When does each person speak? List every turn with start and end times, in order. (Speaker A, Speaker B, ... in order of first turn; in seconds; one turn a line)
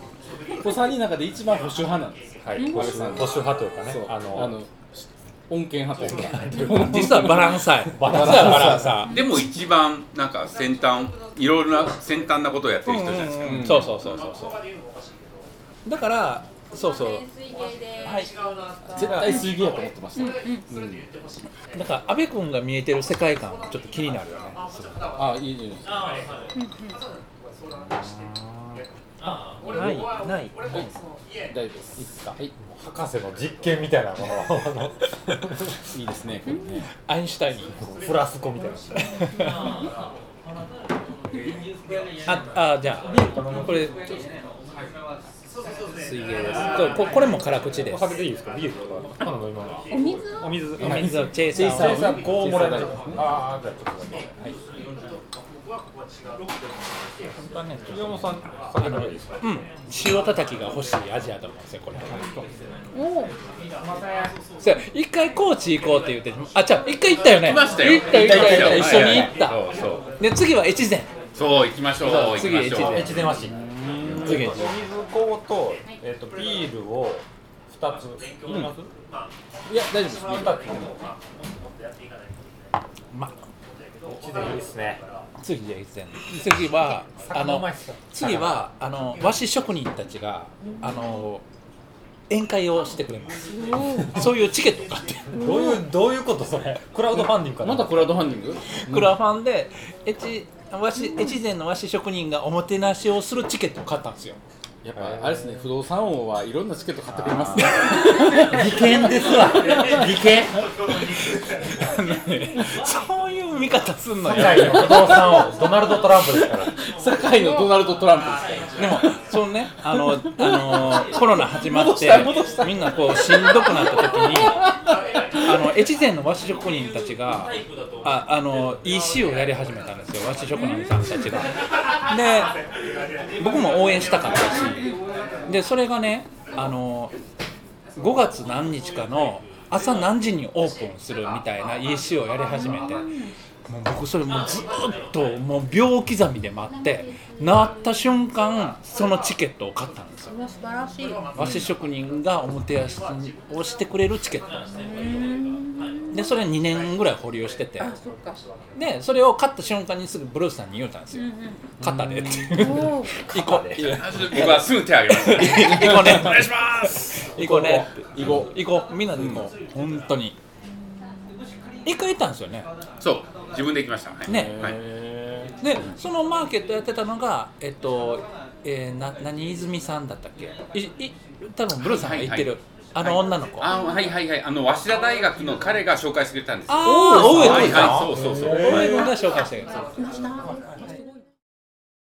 Speaker A: 0.6-9.0
Speaker B: 2.4-4.6
Speaker C: 2.5-3.2
Speaker D: 6.0-9.2
Speaker B: 7.9-9.1
Speaker E: 9.1-14.2
Speaker D: 12.8-14.6
Speaker A: 13.4-14.0
Speaker D: 15.8-17.3
Speaker D: 18.0-18.3
Speaker A: 18.9-21.0
Speaker D: 18.9-19.4
Speaker C: 19.2-19.5
Speaker C: 20.1-20.7
Speaker D: 21.7-25.1
Speaker A: 25.1-26.0
Speaker C: 26.5-27.0
Speaker D: 27.9-28.8
Speaker D: 29.7-30.9
Speaker A: 29.7-30.1
Speaker A: 31.5-32.5
Speaker B: 32.5-35.8
Speaker A: 35.9-36.9
Speaker C: 36.5-36.8
Speaker D: 36.9-37.8
Speaker B: 37.8-39.1
Speaker D: 39.2-39.5
Speaker C: 39.6-39.9
Speaker D: 42.2-44.1
Speaker B: 43.1-44.1
Speaker D: 46.0-48.2
Speaker B: 47.7-54.3
Speaker C: 49.9-50.5
Speaker D: 50.8-52.2
Speaker A: 51.5-53.2
Speaker D: 57.3-62.5
Speaker B: 57.9-59.3
Speaker C: 62.9-63.3
Speaker D: 64.6-69.6
Speaker E: 67.3-70.1
Speaker D: 70.2-71.1
Speaker E: 71.3-73.0
Speaker A: 72.0-74.6
Speaker D: 72.1-73.3
Speaker B: 72.8-78.9
Speaker D: 74.2-74.8
Speaker A: 79.7-80.5
Speaker B: 80.3-81.1
Speaker B: 84.0-85.0
Speaker D: 85.4-91.4
Speaker B: 87.2-88.6
Speaker C: 90.6-91.1
Speaker D: 92.3-93.5
Speaker C: 93.5-94.2
Speaker B: 94.0-94.3
Speaker D: 94.0-95.3
Speaker C: 95.3-95.8
Speaker B: 95.3-98.3
Speaker A: 97.2-99.1
Speaker D: 98.8-104.4
Speaker C: 101.0-101.4
Speaker A: 104.8-108.6
Speaker B: 105.0-105.7
Speaker B: 107.1-110.6
Speaker D: 107.5-108.8
Speaker D: 111.6-115.2
Speaker B: 114.2-116.7
Speaker A: 114.7-115.2
Speaker A: 116.3-119.2
Speaker C: 117.3-117.7
Speaker D: 118.8-124.6
Speaker A: 119.9-124.7
Speaker D: 125.4-131.5
Speaker C: 130.5-131.4
Speaker D: 132.1-132.6
Speaker D: 133.4-134.8
Speaker C: 134.5-135.0
Speaker D: 135.5-137.1
Speaker D: 138.0-143.0
Speaker C: 142.4-143.3
Speaker D: 143.7-150.3
Speaker C: 150.3-151.2
Speaker D: 151.3-154.5
Speaker A: 151.4-151.7
Speaker C: 154.7-156.4
Speaker D: 156.1-157.9
Speaker C: 157.8-158.4
Speaker D: 158.7-161.2
Speaker C: 161.1-161.7
Speaker D: 161.8-170.3
Speaker B: 162.0-164.1
Speaker C: 162.5-163.2
Speaker E: 163.9-166.3
Speaker A: 165.8-166.4
Speaker A: 167.3-168.6
Speaker A: 169.1-169.5
Speaker D: 171.8-172.7
Speaker E: 173.0-174.8
Speaker D: 174.3-174.6
Speaker A: 174.3-175.5
Speaker D: 175.6-183.7
Speaker E: 181.7-189.0
Speaker C: 183.7-184.2
Speaker D: 186.7-189.9
Speaker A: 186.8-188.5
Speaker B: 187.3-188.9
Speaker C: 188.8-191.3